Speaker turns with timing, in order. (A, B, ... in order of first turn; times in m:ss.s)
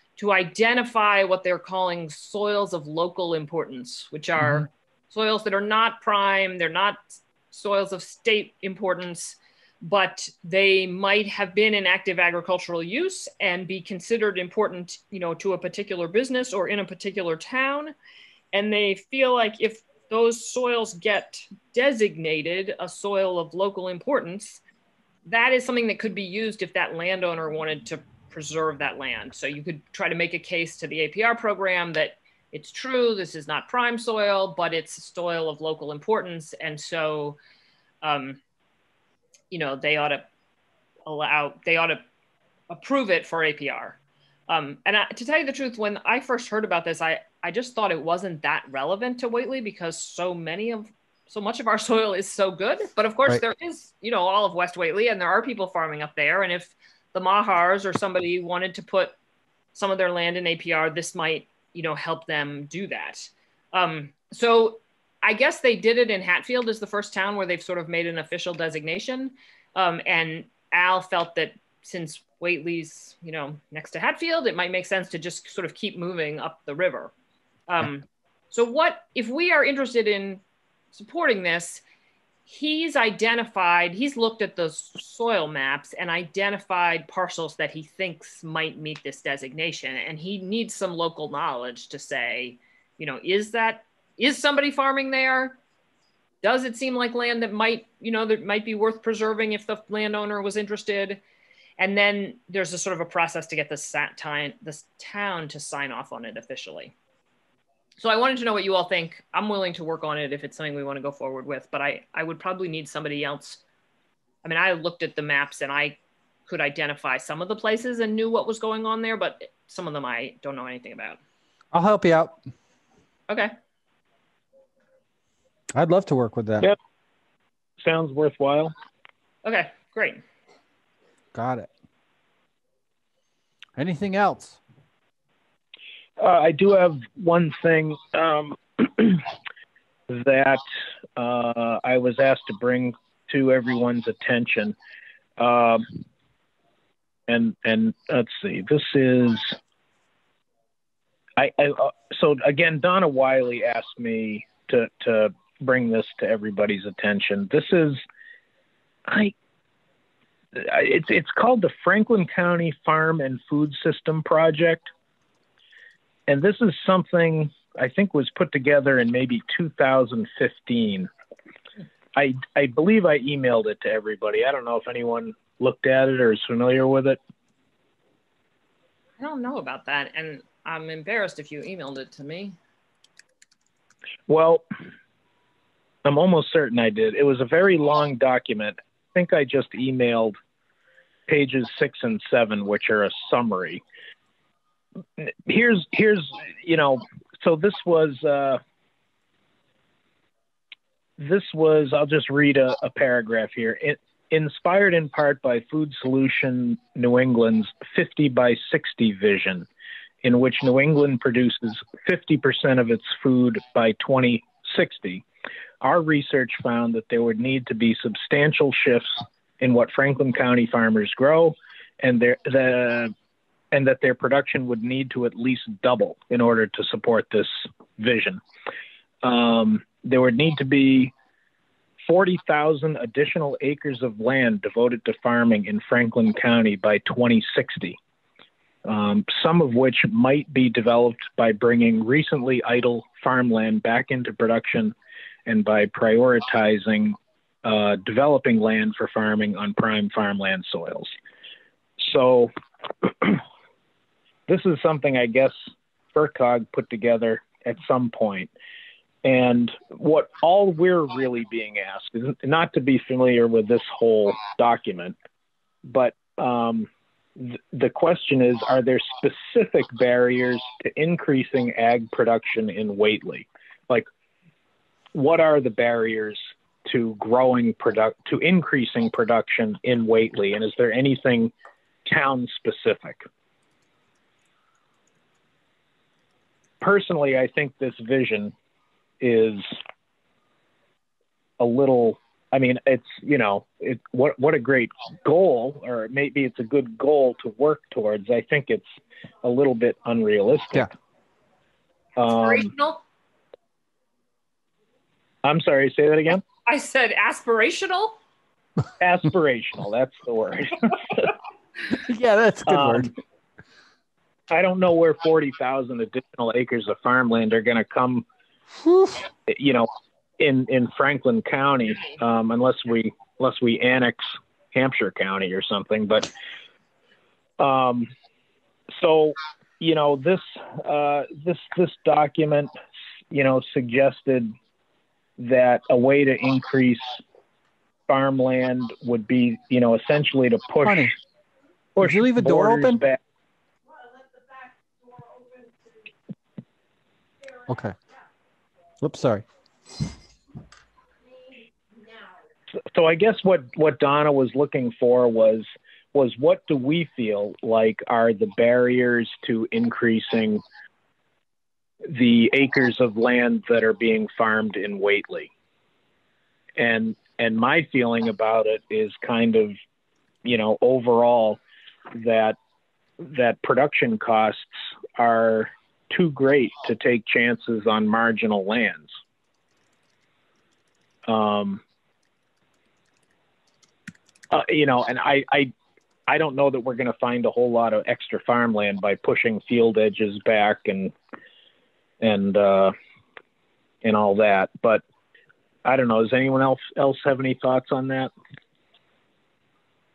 0:00.2-0:18.0 A
0:18.5-0:24.6 A
0:25.3-0:37.4 A
0:38.0-0:38.4 A
0:39.5-0:40.3 A
0:41.1-0:42.0 A
0:42.7-0:59.2 A
0:59.8-1:17.1 A
1:17.7-1:20.4 A
1:20.9-1:21.8 A
1:22.5-1:35.6 A
1:36.4-1:41.2 A
1:41.8-1:46.9 A
1:48.0-1:53.6 A
1:54.4-2:01.2 A
2:01.7-2:02.4 B
2:05.7-2:06.7 B
2:07.8-2:08.7 C
2:09.4-2:10.2 A
2:11.3-2:11.7 B
2:13.8-2:14.6 B
2:16.2-2:19.3 C
2:20.1-2:20.6 C
2:21.2-2:24.8 C
2:25.4-2:25.9 C
2:27.3-2:29.6 C
2:31.4-2:38.0 C
2:39.1-2:39.4 C
2:40.6-2:44.9 C
2:46.3-2:51.1 C
2:52.2-2:57.2 C
2:59.2-3:02.6 A
3:04.3-3:04.7 C
3:06.0-3:10.4 C
3:11.3-3:13.8 C
3:15.2-3:18.6 C
3:21.2-3:29.7 C
3:30.2-3:35.2 C
3:35.8-3:43.1 C
3:43.7-3:48.4 C
3:49.2-3:51.1 C
3:52.0-3:58.0 C
3:58.8-4:05.0 C
4:05.5-4:11.1 C
4:12.0-4:13.4 C
4:14.5-4:15.6 C
4:16.1-4:18.5 C
4:19.2-4:25.2 C
4:25.9-4:34.1 C
4:35.1-4:41.5 C
4:42.0-4:43.2 C
4:46.8-4:48.5 C
4:49.2-4:49.8 C
4:51.6-5:00.9 C
5:02.2-5:02.7 C
5:02.3-5:03.0 A
5:05.4-5:06.4 C
5:06.7-5:08.2 A
5:09.0-5:11.3 C
5:11.9-5:13.1 B
5:12.7-5:13.1 C
5:14.5-5:18.3 C
5:18.8-5:19.2 B
5:19.5-5:26.3 C
5:27.6-5:28.1 C
5:28.9-5:32.7 C
5:33.3-5:34.5 C
5:35.4-5:37.2 C
5:38.1-5:41.1 C
5:40.8-5:41.1 B
5:42.0-5:43.2 C
5:42.0-5:43.0 B
5:47.7-5:48.0 B
5:49.0-5:49.4 B
5:52.9-6:00.6 C
6:02.0-6:05.5 C
6:06.8-6:09.8 C
6:10.4-6:12.6 C
6:13.2-6:19.2 C
6:21.3-6:21.8 C
6:24.5-6:25.7 C
6:26.3-6:31.1 C
6:32.2-6:32.9 C
6:34.0-6:35.0 C
6:35.8-6:38.3 C